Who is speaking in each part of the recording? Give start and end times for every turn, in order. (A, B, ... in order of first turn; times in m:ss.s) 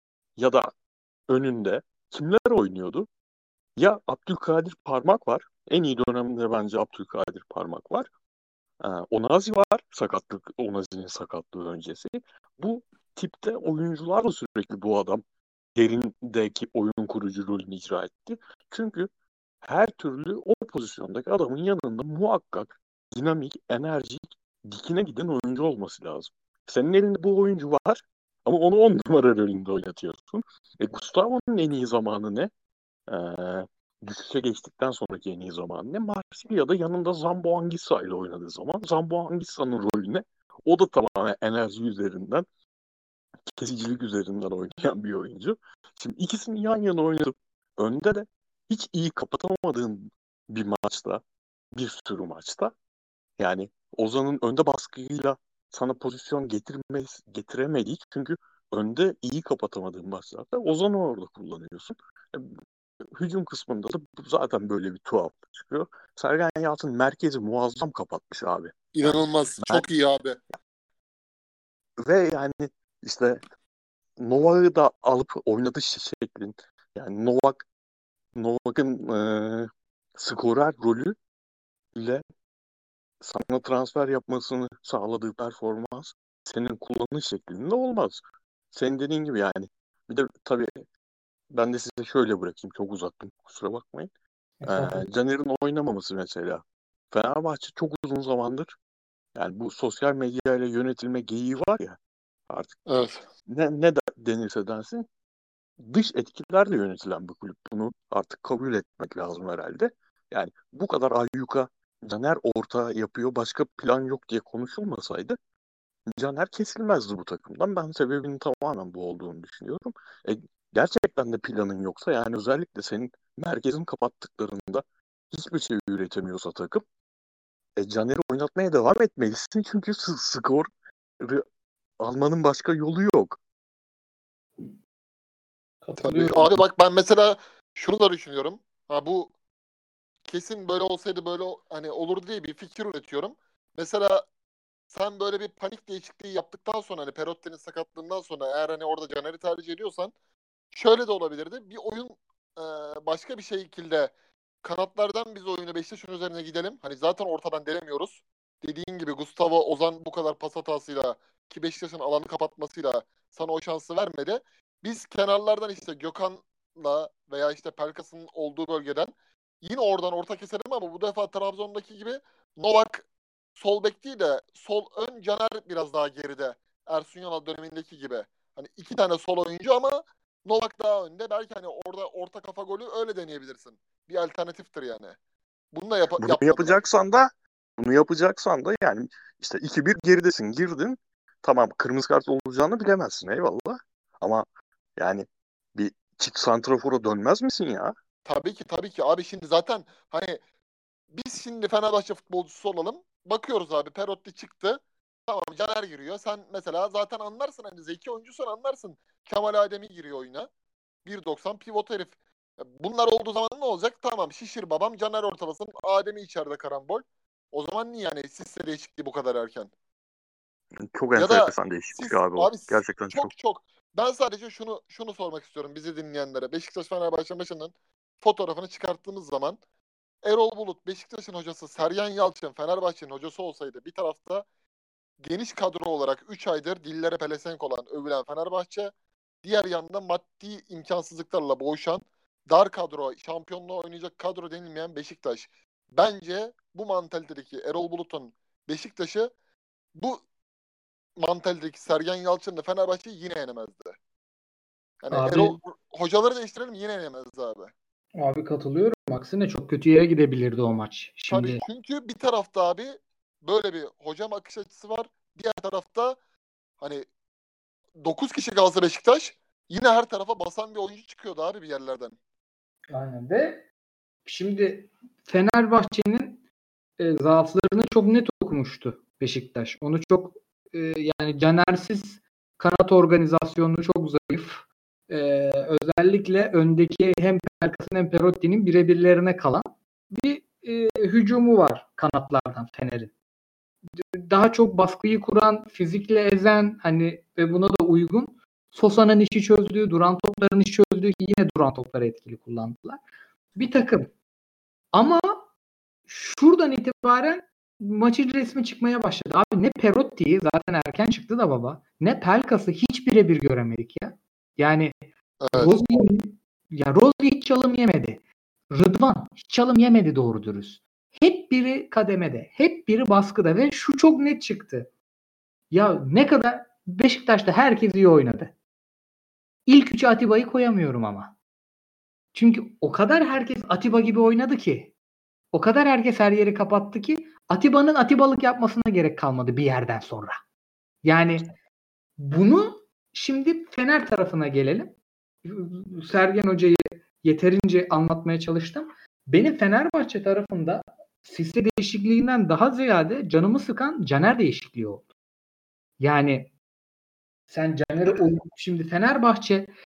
0:00.4-0:00.7 A
0:01.3-0:03.1 A
0:03.8-0:08.1 A
0:08.8-0:15.2 A
0:15.7-0:19.1 A
0:19.6-0:32.5 A
0:33.1-0:42.4 A
0:43.5-0:51.2 A
0:51.7-0:52.7 A
0:53.4-1:02.6 A
1:03.1-1:09.9 A
1:08.9-1:10.4 B
1:12.0-1:13.4 A
1:14.2-1:17.6 A
1:18.3-1:21.1 A
1:21.9-1:22.2 A
1:23.2-1:30.8 A
1:31.5-1:34.1 A
1:34.6-1:35.1 C
1:34.6-1:38.7 A
1:39.3-1:42.0 A
1:42.5-1:42.8 A
1:42.8-1:43.2 B
1:43.5-1:45.0 A
1:45.8-1:55.4 A
1:56.1-2:06.8 A
2:07.8-2:10.7 A
2:12.0-2:13.4 A
2:15.8-2:16.6 C
2:16.0-2:19.3 B
2:20.2-2:24.2 B
2:24.9-2:30.1 B
2:30.7-2:53.0 B
2:53.6-3:05.1 B
3:05.7-3:06.8 B
3:06.2-3:14.4 A
3:15.0-3:17.9 A
3:18.2-3:20.4 B
3:21.1-3:30.5 B
3:31.0-3:39.7 B
3:40.8-3:43.3 A
3:41.2-3:49.6 B
3:50.2-3:54.4 B
3:55.2-3:58.9 B
3:59.4-4:09.3 B
4:09.9-4:10.2 B
4:11.2-4:14.0 B
4:15.0-4:17.7 B
4:15.1-4:15.6 C
4:18.2-4:21.6 C
4:21.3-4:26.2 B
4:26.8-4:27.1 B
4:28.0-4:32.2 B
4:32.9-4:33.7 C
4:34.2-4:36.4 C
4:37.0-4:53.1 C
4:53.9-5:03.0 C
5:03.5-5:04.1 C
5:04.9-5:05.5 C
5:06.1-5:24.9 C
5:15.4-5:15.7 B
5:25.7-5:28.5 C
5:29.7-5:31.3 C
5:32.3-5:34.9 C
5:35.5-5:40.4 C
5:41.0-5:41.6 C
5:42.2-5:55.1 C
5:56.0-5:56.5 C
5:57.5-5:59.7 C